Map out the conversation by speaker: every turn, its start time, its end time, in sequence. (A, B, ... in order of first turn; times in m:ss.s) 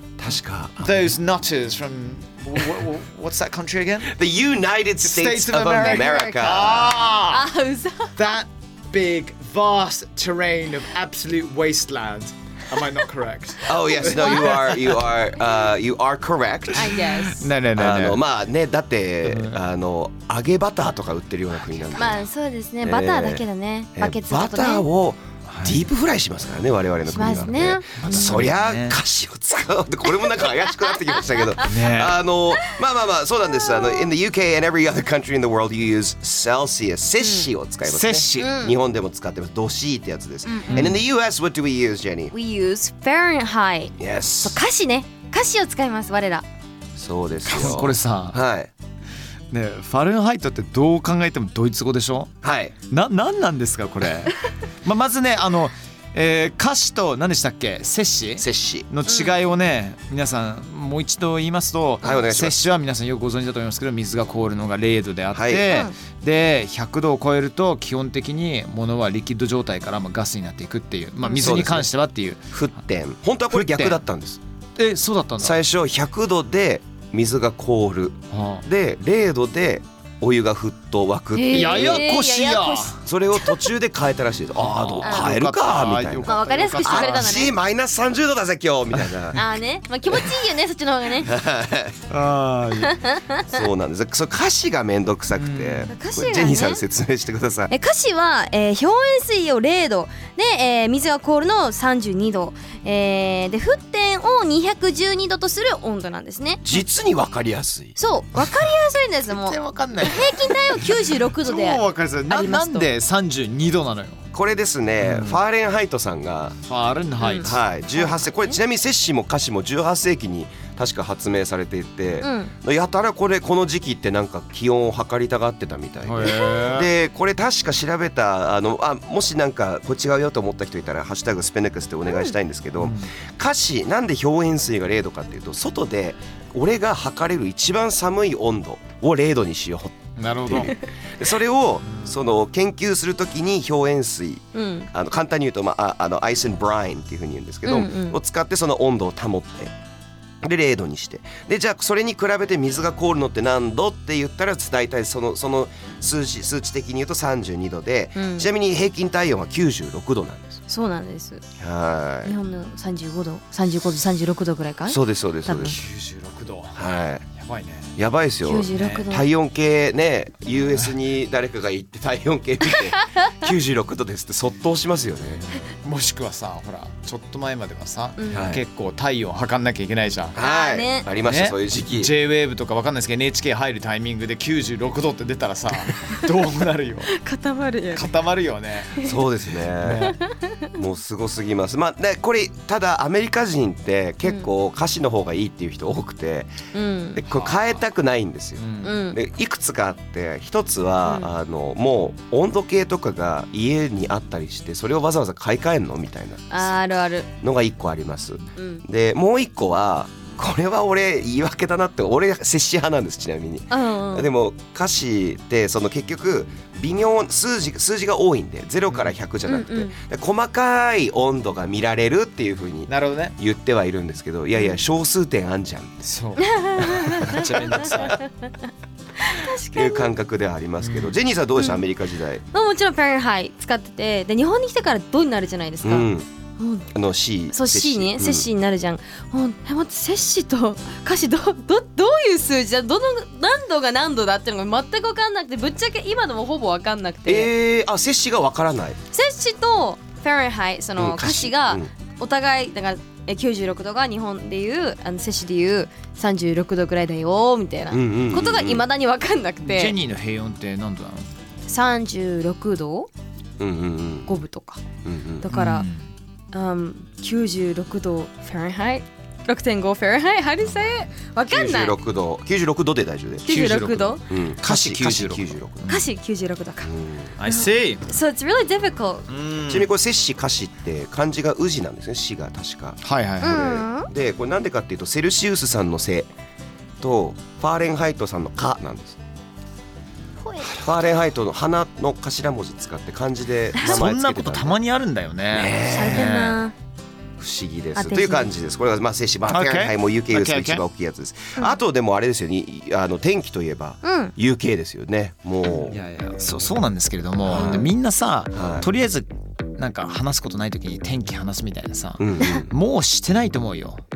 0:00.2-0:01.0 A
0:00.8-0:04.1 B
0:04.1-0:07.0 A
0:05.0-0:07.5 B
0:05.7-0:08.2 C
0:08.2-0:15.0 B
0:13.6-0:17.0 A
0:13.7-0:14.8 C
0:16.7-0:17.5 C
0:16.9-0:18.2 B
0:17.8-0:22.2 A
0:19.2-0:19.6 B
0:21.9-0:24.8 C
0:22.8-0:23.4 A
0:24.0-0:42.3 A
0:25.5-0:25.8 B
0:27.1-0:28.4 C
0:28.0-0:29.0 B
0:30.3-0:31.2 C
0:31.6-0:32.2 B
0:33.6-0:34.1 C
0:37.2-0:37.5 C
0:37.8-0:38.5 B
0:38.4-0:38.8 C
0:40.5-0:40.9 C
0:40.7-0:41.0 B
0:42.3-0:46.4 C
0:44.0-0:44.6 A
0:47.0-0:48.7 A
0:47.4-0:48.4 B
0:49.5-0:52.3 B
0:52.4-0:52.7 A
0:52.9-1:12.5 B
0:58.4-0:58.9 A
0:59.1-0:59.3 C
1:02.0-1:02.6 A
1:05.3-1:05.7 A
1:11.2-1:11.6 C
1:11.4-1:11.9 A
1:12.5-1:14.4 A
1:13.5-1:14.0 B
1:14.8-1:15.6 B
1:15.4-1:22.1 A
1:18.3-1:18.6 B
1:21.3-1:23.7 C
1:21.5-1:23.0 B
1:23.0-1:29.4 A
1:24.6-1:27.5 B
1:25.0-1:25.3 C
1:26.3-1:27.5 C
1:29.3-1:31.3 C
1:31.2-1:32.1 A
1:32.1-1:33.0 B
1:32.8-1:33.5 C
1:33.5-1:37.7 A
1:35.3-1:35.9 B
1:35.9-1:36.8 C
1:37.7-1:46.6 C
1:46.6-1:48.0 A
1:48.0-1:52.9 C
1:49.3-1:54.3 B
1:54.3-1:56.6 A
1:55.0-1:55.4 B
1:56.6-1:57.6 B
1:57.2-1:58.6 C
1:57.4-2:29.8 A
2:02.2-2:02.5 C
2:06.0-2:06.9 B
2:12.1-2:12.3 C
2:12.8-2:13.1 B
2:20.2-2:20.8 B
2:21.9-2:22.1 B
2:24.5-2:24.9 C
2:27.6-2:28.2 C
2:30.4-2:40.6 A
2:38.2-2:38.5 C
2:40.7-2:41.4 C
2:41.6-2:42.3 A
2:42.2-2:45.8 C
2:44.9-2:45.8 A
2:45.6-2:46.8 B
2:46.8-2:47.3 A
2:47.3-2:47.9 B
2:48.0-2:55.4 A
2:48.4-2:49.3 C
2:48.7-2:49.0 B
2:52.7-2:53.3 C
2:55.8-3:00.4 B
2:58.3-2:58.6 A
3:00.3-3:02.1 A
3:00.4-3:01.1 C
3:01.2-3:07.1 B
3:07.1-3:08.1 C
3:07.9-3:09.0 B
3:09.0-3:10.1 A
3:09.8-3:10.2 B
3:10.0-3:10.7 C
3:10.8-3:16.6 A
3:16.7-3:17.2 C
3:17.1-3:26.7 A
3:17.3-3:17.8 B
3:18.6-3:18.9 B
3:18.8-3:19.2 C
3:21.0-3:21.3 C
3:26.5-3:27.3 C
3:27.4-3:46.1 A
3:28.6-3:28.8 C
3:33.7-3:34.3 C
3:39.4-3:39.9 C
3:42.9-3:43.4 B
3:46.0-3:48.2 B
3:46.4-3:48.5 C
3:47.2-3:48.2 A
3:49.2-3:50.1 C
3:49.7-3:52.4 A
3:50.8-3:51.1 B
3:51.6-3:51.8 C
3:52.5-3:56.1 C
3:55.8-3:56.3 A
3:56.6-3:56.9 C
3:56.9-3:58.5 A
3:57.5-4:07.5 C
4:07.2-4:09.0 A
4:09.1-4:20.0 C
4:11.0-4:11.9 A
4:17.9-4:18.8 A
4:19.6-4:21.3 B
4:21.7-4:23.1 C
4:23.6-4:24.3 A
4:24.3-4:24.8 C
4:25.0-4:25.5 A
4:25.4-4:25.9 C
4:25.5-4:26.0 B
4:26.5-4:31.9 C
4:31.5-4:33.5 A
4:33.4-4:34.2 C
4:33.5-4:36.1 B
4:34.3-4:35.8 A
4:35.9-4:39.3 C
4:36.8-4:37.4 A
4:37.4-4:38.0 B
4:39.3-4:39.9 B
4:39.6-4:46.3 A
4:43.0-4:43.7 B
4:43.4-4:44.1 C
4:47.0-4:49.2 A
4:50.4-4:50.8 C
4:50.8-4:54.8 A
4:53.8-4:54.0 C
4:53.8-4:56.6 B
4:55.5-4:56.4 A
4:55.8-4:56.7 C
4:57.4-5:06.0 A
4:58.0-4:58.5 C
4:59.5-5:00.8 B
5:04.0-5:04.3 C
5:05.9-5:14.0 B
5:07.4-5:07.9 A
5:07.5-5:07.9 C
5:08.5-5:08.9 A
5:12.2-5:12.7 A